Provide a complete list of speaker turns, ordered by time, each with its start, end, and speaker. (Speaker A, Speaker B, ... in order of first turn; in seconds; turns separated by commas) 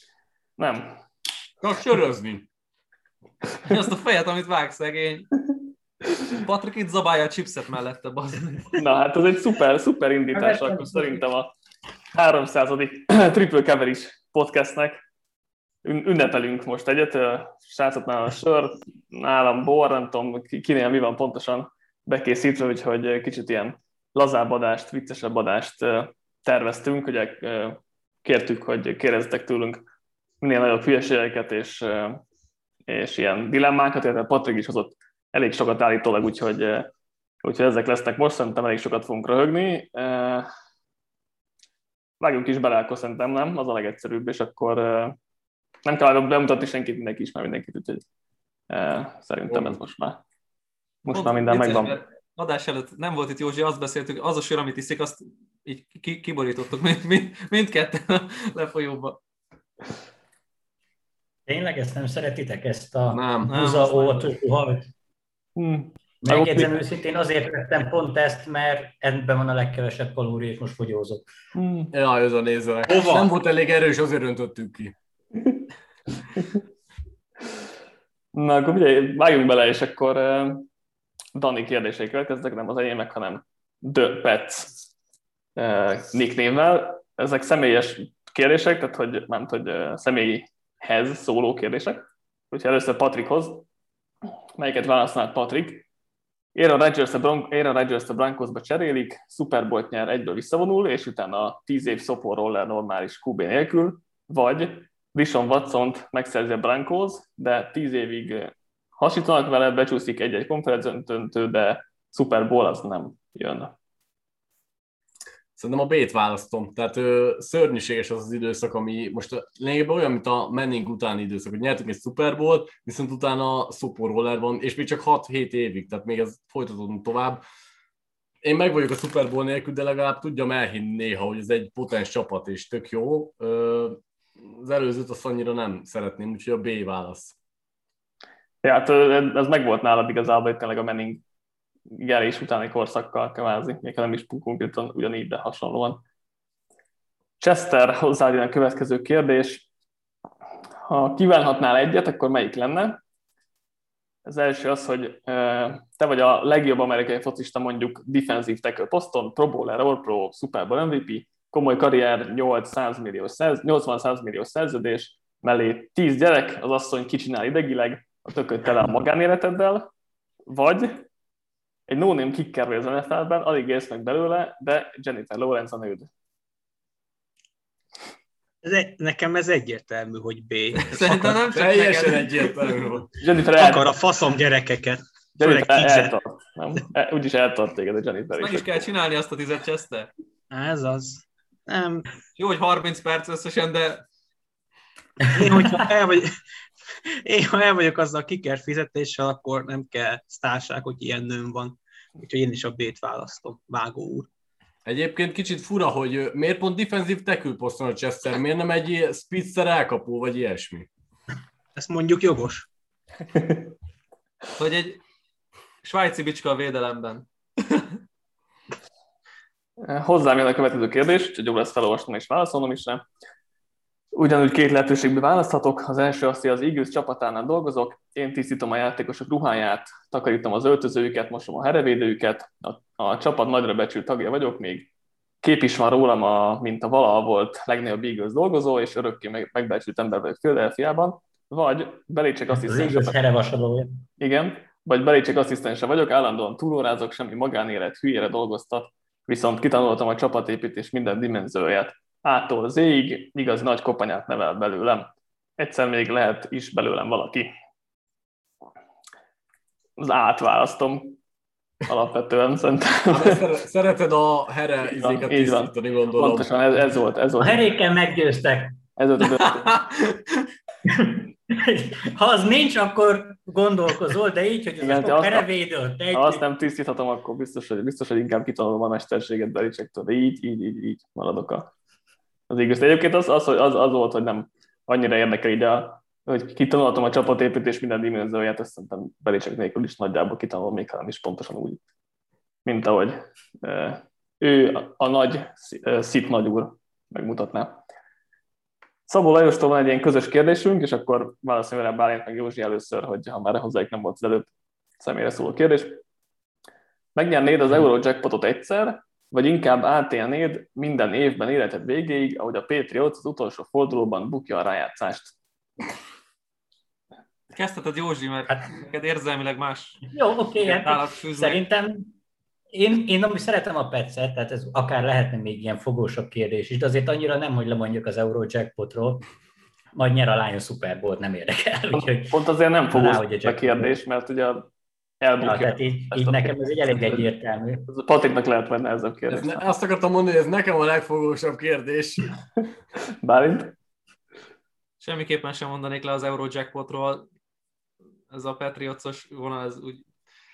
Speaker A: 0.6-1.0, Speaker B: 1.6-2.5, Speaker C: 3.6-5.3, Speaker C: 6.4-8.7, Speaker A: 8.8-11.5, Speaker D: 10.3-11.3, Speaker A: 12.1-15.0, Speaker A: 15.8-29.8, Speaker A: 30.4-32.2, Speaker A: 32.9-36.9, Speaker A: 37.4-40.5, Speaker A: 42.2-45.2, Speaker A: 45.8-48.0, Speaker A: 48.7-50.2, Speaker B: 49.5-49.8, Speaker A: 51.0-52.0, Speaker C: 51.1-59.2, Speaker D: 61.5-64.9, Speaker B: 63.1-63.5, Speaker C: 63.5-64.4, Speaker A: 65.6-66.8, Speaker D: 66.2-71.2, Speaker A: 71.5-71.9, Speaker B: 71.9-75.0, Speaker E: 72.9-73.3, Speaker A: 78.3-80.6, Speaker A: 81.4-84.8, Speaker A: 85.6-93.6, Speaker A: 94.6-95.8, Speaker A: 96.5-113.7, Speaker B: 115.6-127.4, Speaker B: 128.4-137.3, Speaker A: 138.6-141.2, Speaker A: 141.9-146.0, Speaker A: 147.4-149.7, Speaker A: 150.8-153.0, Speaker A: 154.2-169.9, Speaker A: 170.5-171.0, Speaker A: 171.9-176.1, Speaker E: 178.6-181.4, Speaker C: 180.8-182.5, Speaker B: 181.5-183.1, Speaker A: 183.2-184.0, Speaker E: 183.5-186.2, Speaker A: 185.3-188.7, Speaker C: 188.3-190.1, Speaker E: 190.5-192.1, Speaker C: 192.3-194.0, Speaker E: 195.3-204.3, Speaker D: 195.4-195.8, Speaker B: 204.8-210.9, Speaker E: 211.8-212.7, Speaker C: 214.6-215.0, Speaker C: 215.8-217.9, Speaker A: 219.8-223.0, Speaker A: 224.2-234.9, Speaker A: 235.4-243.2, Speaker D: 242.5-244.0, Speaker A: 244.2-257.5, Speaker A: 260.0-261.2, Speaker A: 261.9-263.4, Speaker B: 263.1-266.5, Speaker A: 264.9-267.7, Speaker D: 267.4-268.8, Speaker A: 269.0-269.8, Speaker C: 269.4-270.4, Speaker D: 270.8-276.4, Speaker A: 274.8-275.5, Speaker A: 276.1-281.7, Speaker A: 282.5-291.8, Speaker A: 292.6-297.8, Speaker A: 299.1-304.5, Speaker A: 305.0-306.0, Speaker A: 307.1-315.3, Speaker C: 317.5-320.0, Speaker D: 318.5-318.7, Speaker D: 320.1-322.1, Speaker C: 320.6-321.6, Speaker D: 322.7-329.2, Speaker D: 329.9-332.4, Speaker A: 331.9-334.7, Speaker D: 332.9-333.9, Speaker A: 335.2-337.2, Speaker D: 335.4-337.9, Speaker A: 337.9-339.6, Speaker B: 339.3-342.3, Speaker A: 343.2-343.7, Speaker C: 345.0-347.2, Speaker C: 348.3-350.0